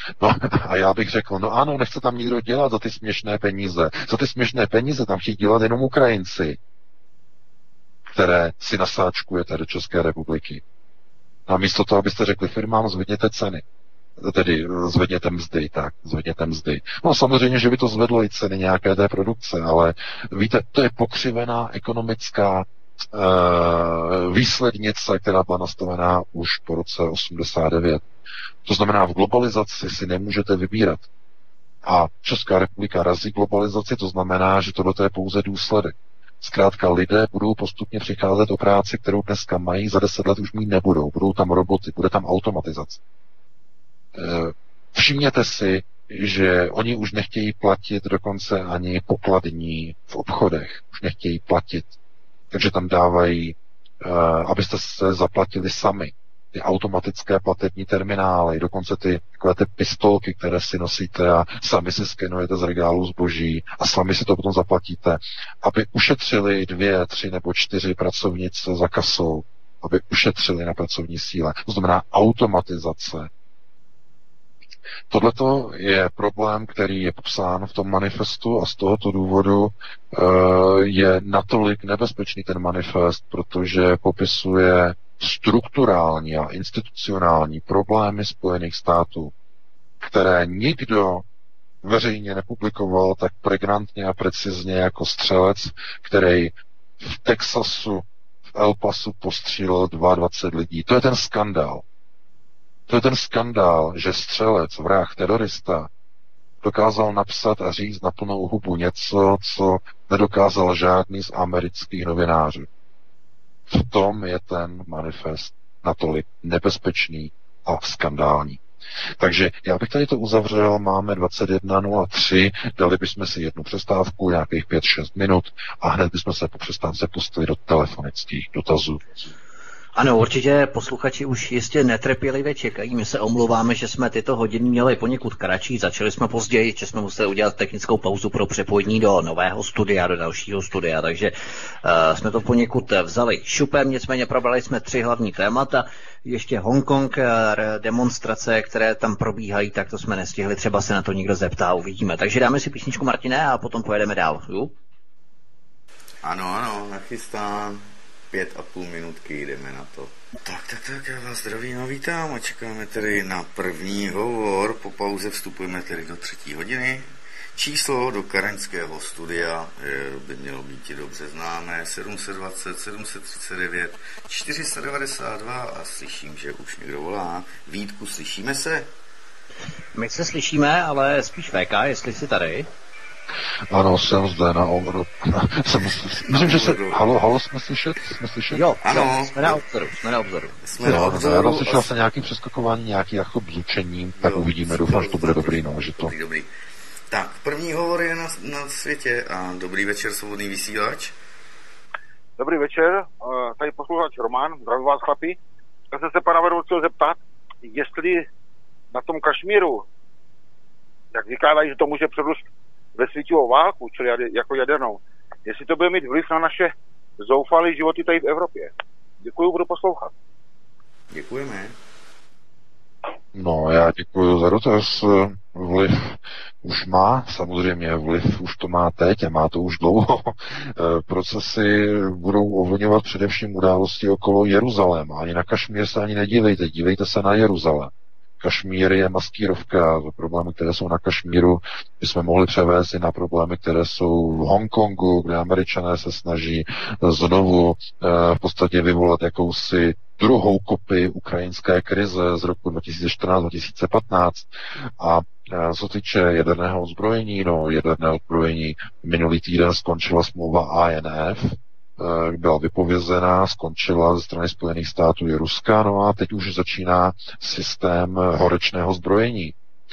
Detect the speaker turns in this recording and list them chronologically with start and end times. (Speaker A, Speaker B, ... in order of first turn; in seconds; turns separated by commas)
Speaker A: 0.2-6.6, Speaker A: 8.1-10.6, Speaker A: 11.5-13.6, Speaker A: 14.2-28.0, Speaker A: 28.6-31.1, Speaker A: 31.9-43.0, Speaker A: 44.1-52.0, Speaker A: 52.5-73.3, Speaker A: 75.1-89.3, Speaker A: 90.0-91.2, Speaker A: 91.8-101.8, Speaker A: 102.9-105.9, Speaker A: 106.6-112.7, Speaker A: 113.7-118.6, Speaker A: 119.2-129.1, Speaker B: 130.0-141.3, Speaker B: 141.8-154.8, Speaker C: 156.2-178.9, Speaker B: 179.9-182.7, Speaker A: 183.7-188.6, Speaker C: 186.3-187.1, Speaker B: 188.5-190.6, Speaker C: 188.8-189.6, Speaker C: 190.6-191.9, Speaker A: 190.8-196.1, Speaker C: 194.2-196.5, Speaker C: 197.1-201.1, Speaker D: 202.4-205.4, Speaker D: 205.9-208.3, Speaker D: 208.9-209.9, Speaker D: 211.1-220.1, Speaker C: 221.1-221.8, Speaker A: 223.3-269.6